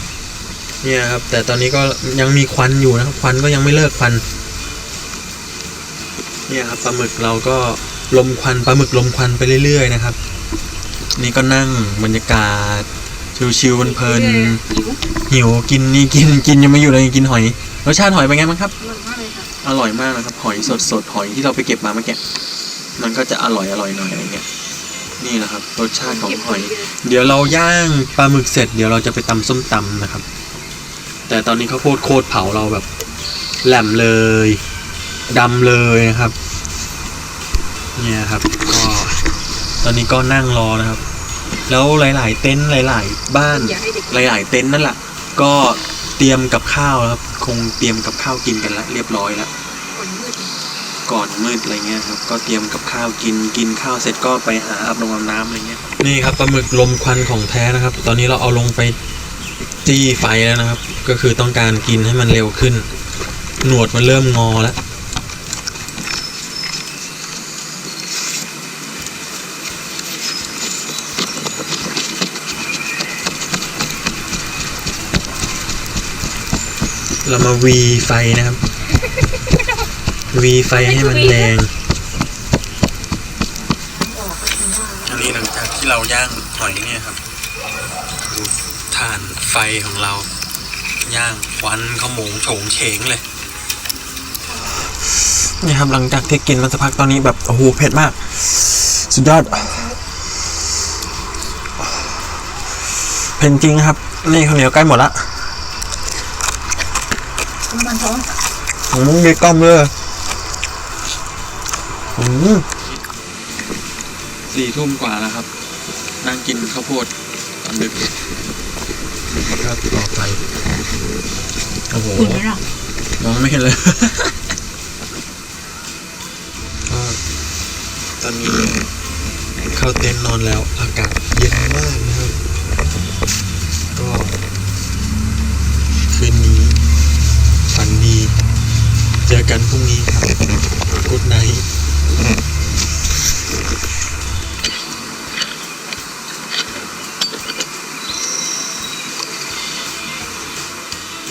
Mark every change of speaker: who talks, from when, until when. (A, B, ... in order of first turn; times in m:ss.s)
0:00.8-0:04.2 A
0:06.5-0:10.2 A
0:11.1-0:14.6 A
0:13.8-0:15.0 B
0:15.3-0:18.7 A
0:18.8-0:19.5 B
0:19.6-0:22.2 A
0:23.0-0:24.4 A
0:25.2-0:30.2 A
0:26.0-0:26.9 B
0:31.3-0:32.8 A
0:33.6-0:34.6 A
0:35.3-0:36.3 A
0:38.0-0:39.2 A
0:39.8-0:41.0 A
0:41.7-0:49.5 A
0:43.5-0:44.3 B
0:49.9-0:50.6 B
0:51.0-0:59.0 A
0:59.8-1:02.9 A
1:03.6-1:04.8 A
1:17.2-1:18.6 A
1:19.0-1:19.6 B
1:20.3-1:21.7 A
1:20.7-1:21.5 B
1:23.9-1:25.4 B
1:25.0-1:27.2 A
1:28.2-1:30.3 A
1:31.0-1:33.2 A
1:35.6-1:39.9 A
1:39.4-1:40.0 B
1:41.8-1:42.2 A
1:43.4-1:45.3 A
1:47.6-1:48.4 B
1:48.9-1:49.9 A
1:52.1-1:52.9 A
1:54.5-1:55.5 A
1:56.2-1:57.1 A
1:57.6-1:58.1 A
1:59.4-2:00.4 A
2:01.9-2:02.4 A
2:02.1-2:02.6 B
2:03.2-2:04.4 A
2:06.9-2:07.2 A
2:08.2-2:08.8 A
2:09.7-2:12.3 A
2:13.9-2:14.4 A
2:16.1-2:16.8 A
2:17.7-2:18.3 A
2:19.2-2:20.3 A
2:21.0-2:21.6 A